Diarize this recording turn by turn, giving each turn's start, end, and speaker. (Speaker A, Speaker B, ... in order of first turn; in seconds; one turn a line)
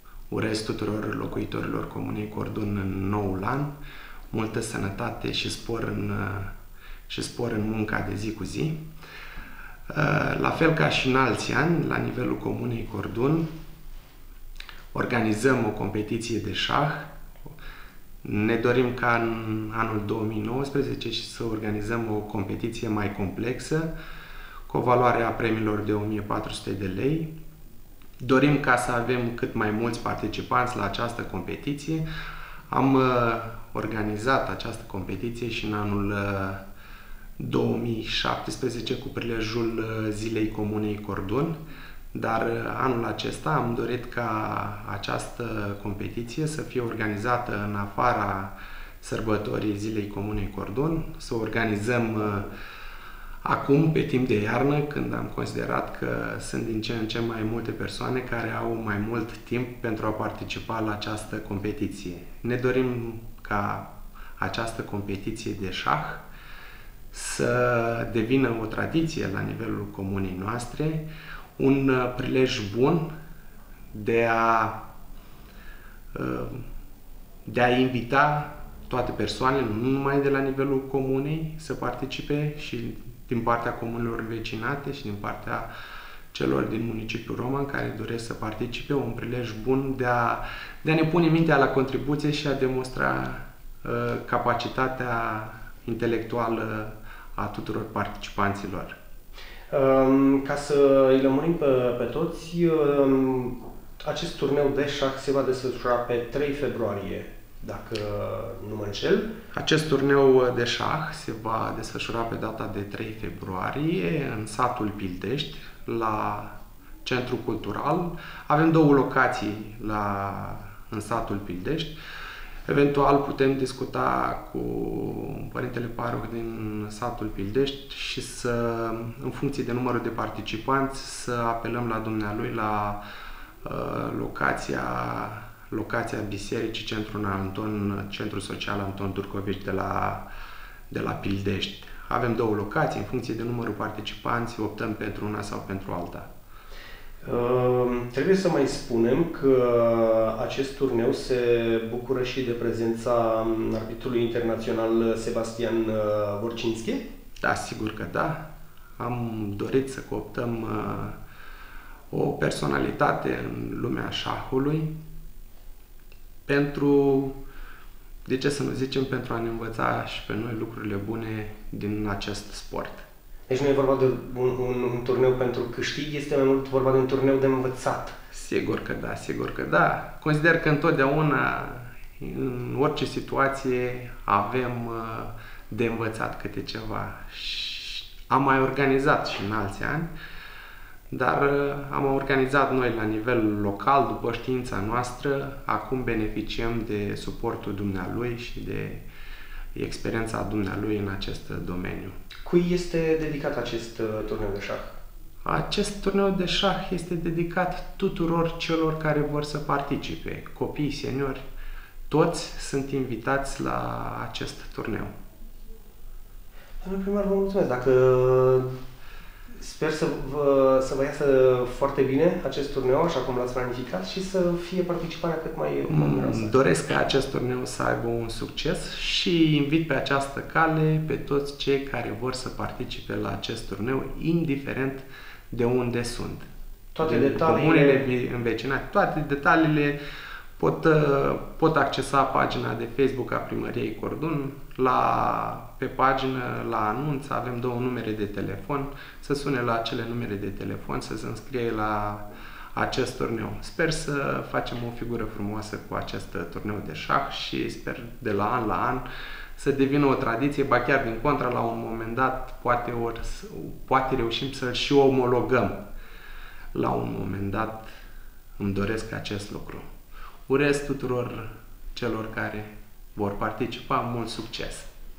Speaker A: 0.3-3.7
Speaker A: 4.3-6.5
Speaker A: 7.1-8.8
Speaker A: 9.9-13.5
Speaker A: 14.9-17.1
Speaker A: 18.2-23.9
Speaker A: 24.7-27.3
Speaker A: 28.2-32.0
Speaker A: 32.7-36.6
Speaker A: 37.4-41.6
Speaker A: 42.1-52.5
Speaker A: 53.4-63.9
Speaker A: 64.4-66.2
Speaker A: 67.1-71.1
Speaker A: 71.6-73.1
Speaker A: 73.9-74.8
Speaker A: 76.1-76.7
Speaker A: 77.5-85.7
Speaker A: 86.3-99.0
Speaker B: 99.7-109.3
Speaker A: 109.5-122.0
Speaker A: 122.7-133.0
Speaker A: 133.6-140.2
Speaker A: 140.9-146.3
Speaker B: 147.2-157.1
Speaker A: 157.4-158.4
Speaker A: 159.0-161.2
Speaker A: 162.1-164.9
Speaker A: 166.4-167.3
Speaker A: 168.2-173.1
Speaker B: 173.5-178.2
Speaker A: 178.3-190.1
Speaker A: 191.1-199.0
Speaker A: 199.8-202.2
Speaker B: 202.4-205.0
Speaker A: 205.4-211.4
Speaker A: 212.1-215.1
Speaker B: 216.8-218.7
Speaker B: 219.6-226.5
Speaker A: 225.9-236.5
Speaker B: 236.9-238.0
Speaker A: 237.0-240.0
Speaker A: 240.6-252.2
Speaker A: 252.7-265.8
Speaker A: 266.7-267.9
Speaker A: 268.6-269.9
Speaker A: 270.5-274.9